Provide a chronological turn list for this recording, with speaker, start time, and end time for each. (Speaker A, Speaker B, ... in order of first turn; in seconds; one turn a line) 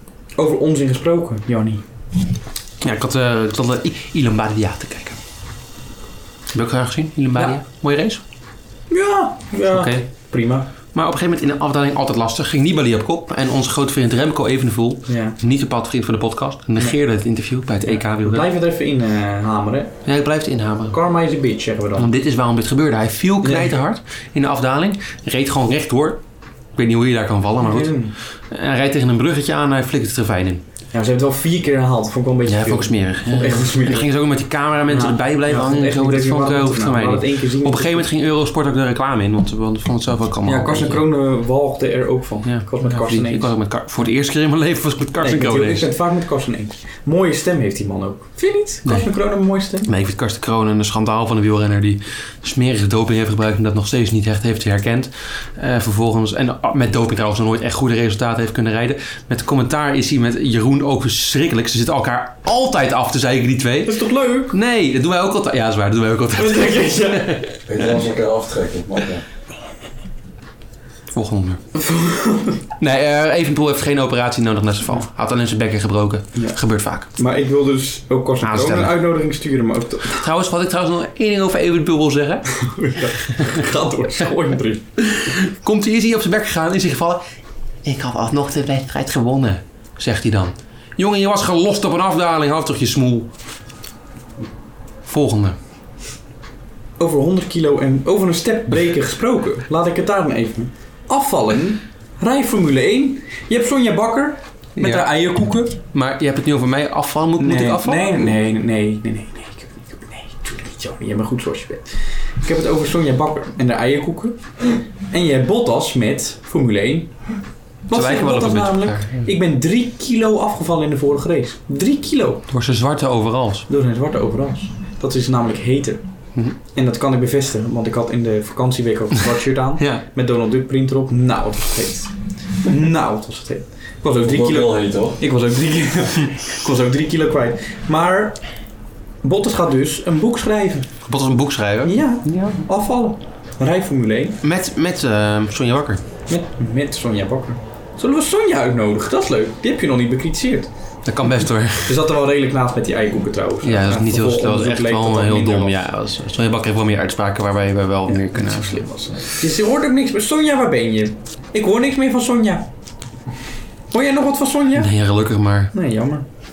Speaker A: 0.3-1.8
Speaker B: 2.8-5.2
Speaker B: 6.5-8.2
Speaker A: 8.9-10.7
Speaker B: 9.7-10.1
Speaker B: 10.9-18.5
Speaker A: 15.1-15.4
Speaker A: 17.9-20.0
Speaker B: 20.0-21.0
Speaker A: 20.9-22.1
Speaker B: 21.9-26.2
Speaker A: 23.4-23.7
Speaker B: 26.7-30.6
Speaker A: 27.6-28.1
Speaker A: 30.9-34.1
Speaker B: 32.5-41.0
Speaker A: 34.9-38.1
Speaker A: 40.4-43.5
Speaker B: 42.4-45.9
Speaker A: 45.2-49.9
Speaker B: 49.8-67.6
Speaker A: 63.8-64.5
Speaker A: 66.3-67.3
Speaker C: 67.7-69.2
Speaker B: 71.1-71.6
Speaker A: 71.7-72.6
Speaker B: 72.8-77.1
Speaker A: 77.1-80.2
Speaker B: 78.4-79.0
Speaker B: 80.1-82.6
Speaker A: 82.5-84.8
Speaker B: 85.0-87.2
Speaker B: 87.8-93.3
Speaker B: 95.0-95.5
Speaker A: 97.0-105.8
Speaker B: 104.8-105.1
Speaker B: 105.9-108.3
Speaker A: 107.4-117.1
Speaker A: 117.9-122.4
Speaker B: 117.9-119.3
Speaker B: 122.5-123.7
Speaker A: 123.7-126.0
Speaker A: 126.6-138.4
Speaker B: 129.8-130.0
Speaker C: 134.2-135.2
Speaker A: 139.2-140.9
Speaker B: 141.0-142.6
Speaker A: 141.8-144.4
Speaker B: 144.4-146.0
Speaker A: 146.3-150.7
Speaker B: 151.0-151.9
Speaker A: 151.8-155.8
Speaker B: 153.6-158.9
Speaker A: 158.1-162.7
Speaker A: 163.9-164.9
Speaker B: 164.7-165.7
Speaker A: 165.7-166.2